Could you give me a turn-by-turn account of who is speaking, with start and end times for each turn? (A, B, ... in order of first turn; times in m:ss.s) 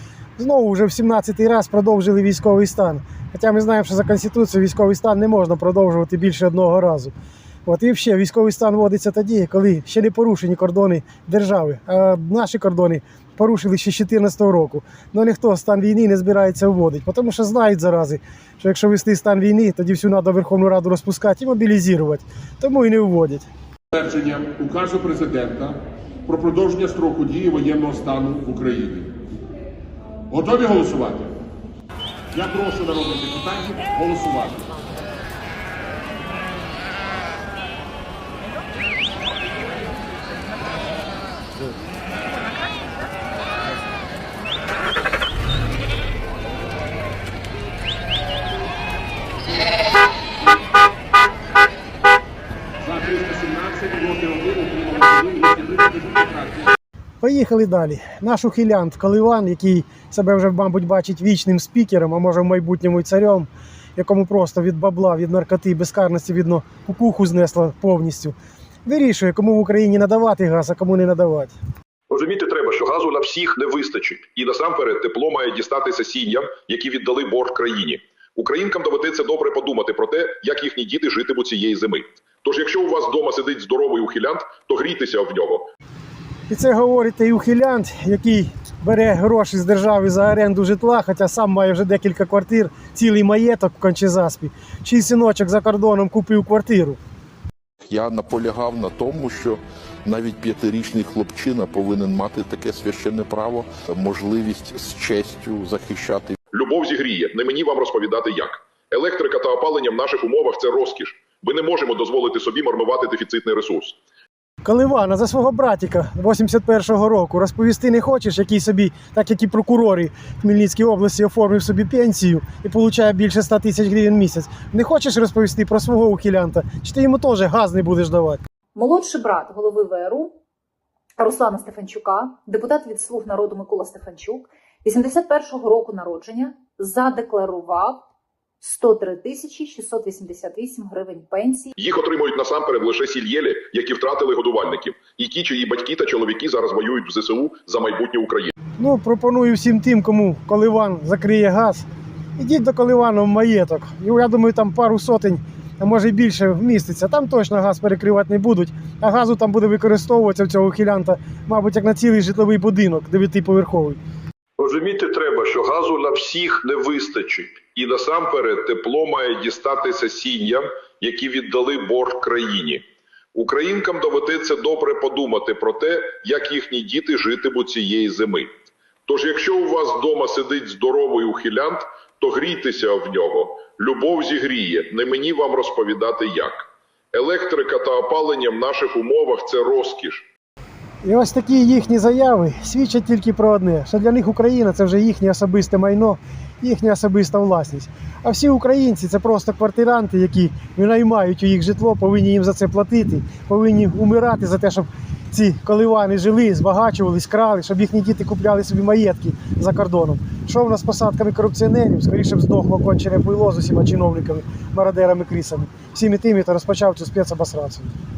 0:00.4-0:07.1 A
0:07.7-0:23.5 A
0:23.9-0:29.1 B
0:30.3-0:31.3 B
0:32.3-0:34.7 B
0:52.8-0:56.7 B
0:57.2-1:11.5 A
1:12.1-1:25.7 C
1:26.5-1:37.0 A
1:37.8-1:46.4 D
1:46.5-1:54.0 C
1:54.6-2:08.4 A
2:08.8-2:10.4 E
2:11.2-2:18.0 E
2:18.6-2:21.7 E
2:21.8-2:28.5 C
2:28.8-2:31.8 A
2:32.4-2:44.0 A
2:44.6-2:52.8 C
2:53.4-2:58.5 C
2:59.1-3:10.3 C
3:11.0-3:37.9 A